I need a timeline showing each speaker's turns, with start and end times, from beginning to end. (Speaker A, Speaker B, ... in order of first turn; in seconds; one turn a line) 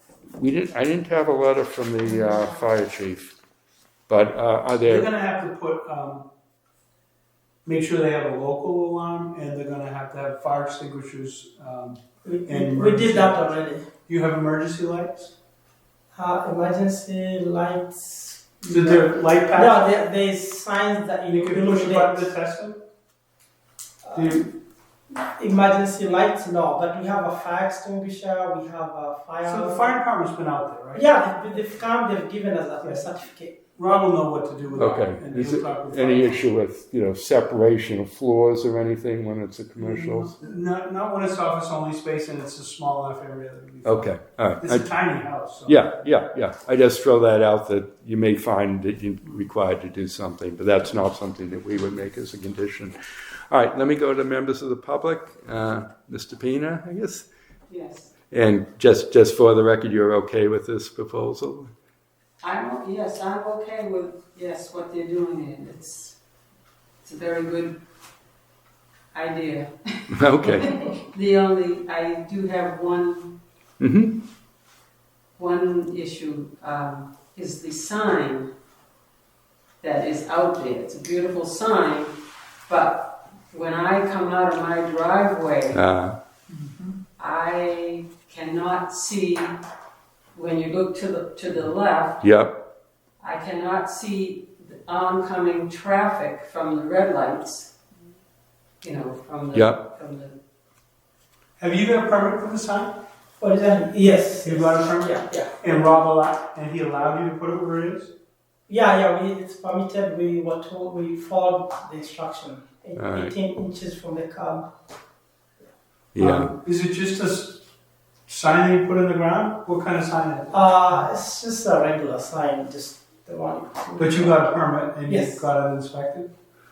Speaker A: 0.3-3.4
Speaker A: 4.1-5.1
Speaker B: 4.9-6.3
Speaker B: 7.7-13.5
Speaker C: 12.2-13.9
Speaker B: 14.1-15.3
Speaker C: 16.1-22.3
Speaker B: 18.7-20.0
Speaker B: 21.3-22.8
Speaker C: 24.0-24.5
Speaker B: 24.1-24.5
Speaker C: 25.1-29.9
Speaker B: 29.4-31.1
Speaker C: 30.9-33.6
Speaker B: 33.8-36.5
Speaker A: 34.8-40.3
Speaker B: 39.8-45.9
Speaker A: 43.9-44.9
Speaker A: 45.7-53.0
Speaker A: 53.5-57.3
Speaker D: 57.7-58.1
Speaker A: 58.3-61.7
Speaker D: 62.4-66.2
Speaker D: 67.0-67.8
Speaker D: 69.1-73.4
Speaker A: 70.1-70.8
Speaker A: 73.8-74.2
Speaker D: 75.4-78.5
Speaker D: 79.8-85.8
Speaker A: 85.7-86.2
Speaker D: 87.2-89.6
Speaker D: 90.3-92.2
Speaker A: 92.2-92.7
Speaker D: 93.2-97.7
Speaker D: 98.8-100.4
Speaker A: 99.5-99.8
Speaker B: 101.6-103.0
Speaker C: 103.4-105.6
Speaker B: 104.4-108.1
Speaker C: 108.7-114.7
Speaker A: 113.0-113.3
Speaker A: 116.2-116.5
Speaker B: 116.2-117.7
Speaker B: 118.3-121.0
Speaker C: 120.5-124.5
Speaker B: 124.0-126.3
Speaker C: 125.1-125.5